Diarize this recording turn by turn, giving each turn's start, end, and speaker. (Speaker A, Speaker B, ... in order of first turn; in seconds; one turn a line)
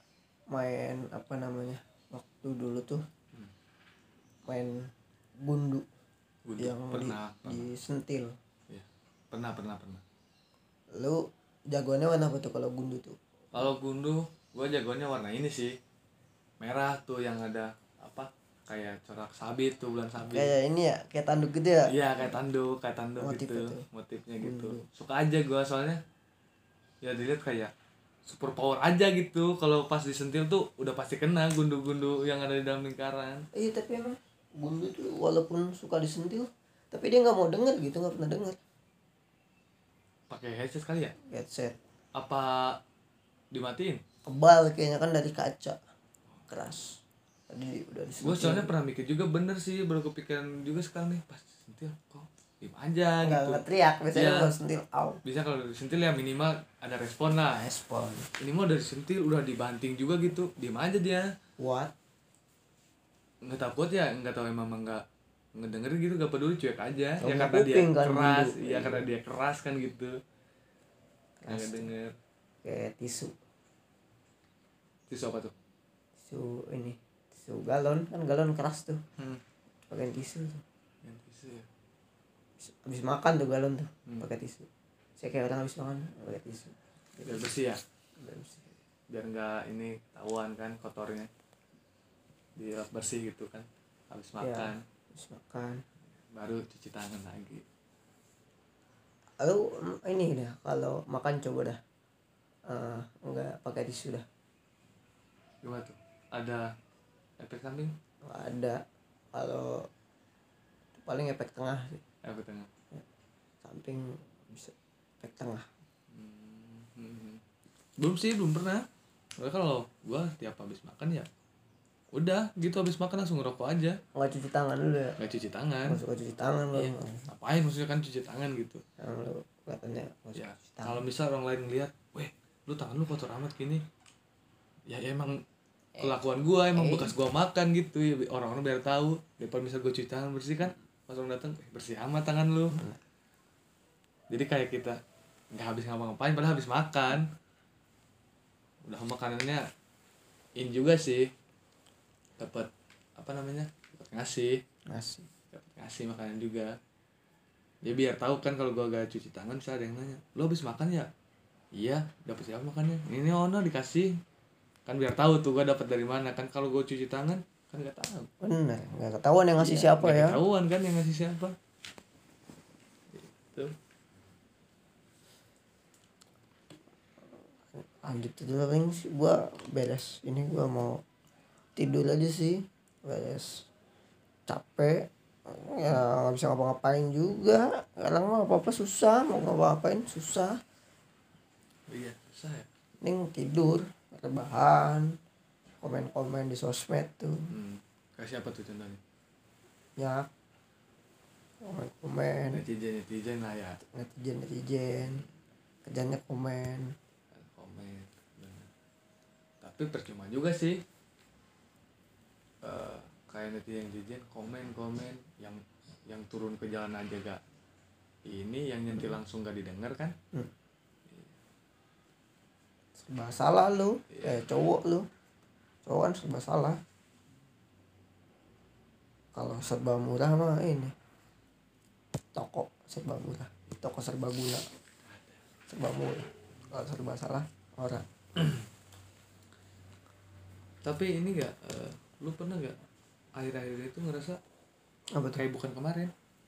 Speaker A: 0.5-3.0
Speaker A: 4.5-5.8
Speaker B: 6.5-7.7
Speaker A: 6.6-8.3
Speaker B: 8.7-10.0
Speaker A: 11.0-13.2
Speaker B: 13.5-15.8
Speaker B: 16.6-20.5
Speaker A: 20.2-21.9
Speaker B: 21.9-26.0
Speaker A: 23.2-23.8
Speaker A: 24.4-24.8
Speaker B: 27.0-27.7
Speaker B: 28.2-33.5
Speaker A: 33.5-38.5
Speaker B: 40.3-41.1
Speaker A: 41.3-41.8
Speaker B: 42.1-42.8
Speaker B: 43.5-44.0
Speaker A: 44.2-45.8
Speaker A: 46.5-48.7
Speaker B: 48.2-54.5
Speaker A: 53.2-55.2
Speaker B: 55.2-57.6
Speaker A: 57.5-58.3
Speaker B: 58.4-61.3
Speaker A: 61.6-61.9
Speaker B: 63.4-65.0
Speaker B: 65.5-70.2
Speaker A: 67.2-69.0
Speaker A: 71.4-71.9
Speaker B: 71.5-72.2
Speaker A: 72.6-73.3
Speaker B: 75.1-75.5
Speaker A: 76.2-79.0
Speaker A: 79.9-80.6
Speaker B: 81.0-81.7
Speaker A: 82.6-84.7
Speaker A: 85.2-87.4
Speaker B: 87.2-87.8
Speaker A: 88.2-88.7
Speaker B: 89.1-91.3
Speaker B: 92.6-94.8
Speaker A: 94.4-95.8
Speaker B: 96.3-97.6
Speaker A: 99.4-101.8
Speaker A: 102.7-104.2
Speaker B: 105.6-106.7
Speaker B: 107.4-107.9
Speaker A: 108.2-108.8
Speaker A: 109.3-109.8
Speaker A: 111.0-112.0
Speaker B: 112.2-112.7
Speaker A: 113.6-115.7
Speaker B: 116.1-117.4
Speaker B: 118.0-118.8
Speaker B: 119.4-121.3
Speaker B: 122.1-124.0
Speaker A: 124.1-125.2
Speaker B: 125.2-126.0
Speaker A: 125.9-127.3
Speaker B: 126.7-128.8
Speaker A: 129.0-131.0
Speaker B: 130.3-133.8
Speaker B: 134.9-135.4
Speaker A: 135.9-137.1
Speaker B: 136.0-142.8
Speaker A: 142.7-143.0
Speaker B: 144.3-145.0
Speaker B: 145.5-147.3
Speaker B: 148.8-149.7
Speaker B: 150.6-151.3
Speaker B: 152.4-154.6
Speaker A: 154.9-155.3
Speaker B: 155.5-156.8
Speaker B: 157.8-161.1
Speaker B: 161.7-164.2
Speaker B: 164.8-168.3
Speaker A: 168.4-170.4
Speaker B: 169.6-171.6
Speaker B: 173.1-173.7
Speaker A: 177.7-181.0
Speaker A: 181.8-183.7
Speaker A: 184.5-190.6
Speaker B: 191.9-192.7
Speaker A: 193.0-195.2
Speaker A: 195.8-197.5
Speaker B: 197.5-199.0
Speaker A: 200.0-200.3
Speaker A: 201.6-202.6
Speaker B: 202.5-203.8
Speaker A: 203.8-205.2
Speaker A: 205.8-206.9
Speaker B: 207.3-208.7
Speaker B: 209.6-210.8
Speaker B: 212.6-217.4
Speaker B: 218.3-220.1
Speaker B: 221.1-221.3
Speaker A: 223.0-225.1
Speaker B: 224.1-224.5
Speaker A: 225.8-226.8
Speaker A: 229.3-230.9
Speaker A: 232.3-234.6
Speaker A: 235.7-238.0
Speaker B: 240.8-242.8
Speaker B: 243.4-244.4
Speaker A: 245.1-245.4
Speaker B: 245.3-246.1